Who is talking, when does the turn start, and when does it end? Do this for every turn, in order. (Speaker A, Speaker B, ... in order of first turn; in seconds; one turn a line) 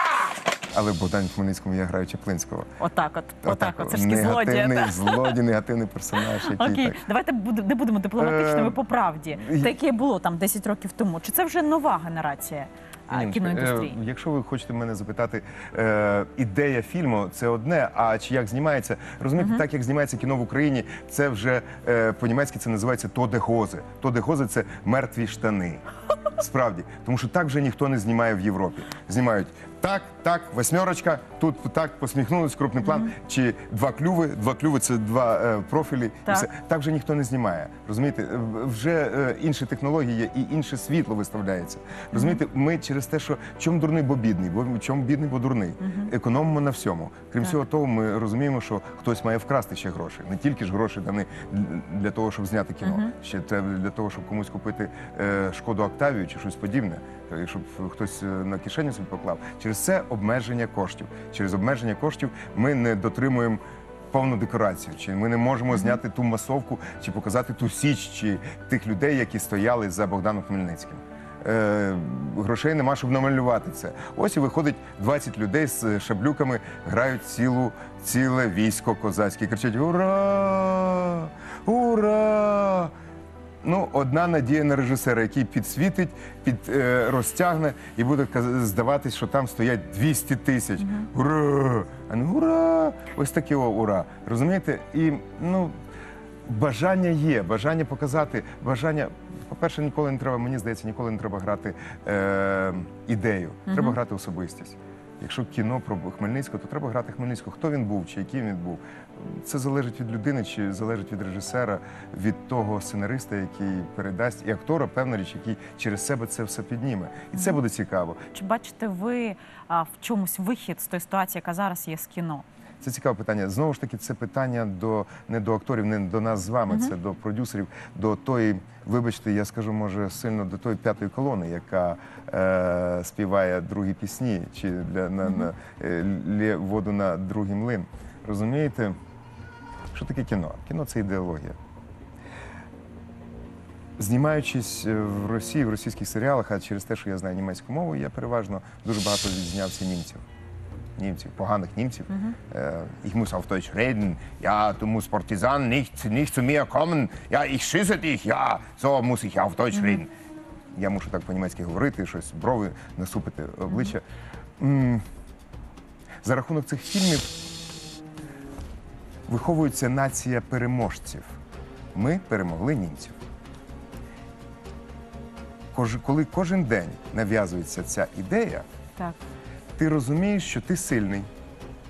Speaker A: 0.7-2.7
Speaker B: 2.8-5.4
Speaker A: 3.4-7.0
Speaker B: 6.2-13.9
Speaker A: 8.2-9.7
Speaker A: 13.1-25.8
Speaker B: 19.4-19.6
Speaker A: 26.3-63.6
Speaker B: 32.8-33.1
Speaker B: 42.1-42.4
Speaker B: 45.8-46.1
Speaker B: 52.8-53.1
Speaker A: 64.1-82.9
Speaker B: 65.7-66.0
Speaker A: 83.6-95.7
Speaker B: 90.8-91.1
Speaker A: 96.5-118.2
Speaker B: 103.7-104.0
Speaker B: 117.3-117.6
Speaker B: 118.3-122.4
Speaker A: 122.8-138.9
Speaker A: 139.9-141.6
Speaker A: 144.0-150.2
Speaker A: 151.0-160.1
Speaker B: 152.1-152.3
Speaker B: 159.7-160.0
Speaker A: 160.7-164.0
Speaker A: 164.6-165.0
Speaker A: 166.2-167.3
Speaker A: 169.3-171.3
Speaker A: 171.9-173.2
Speaker A: 175.7-178.6
Speaker A: 179.8-181.3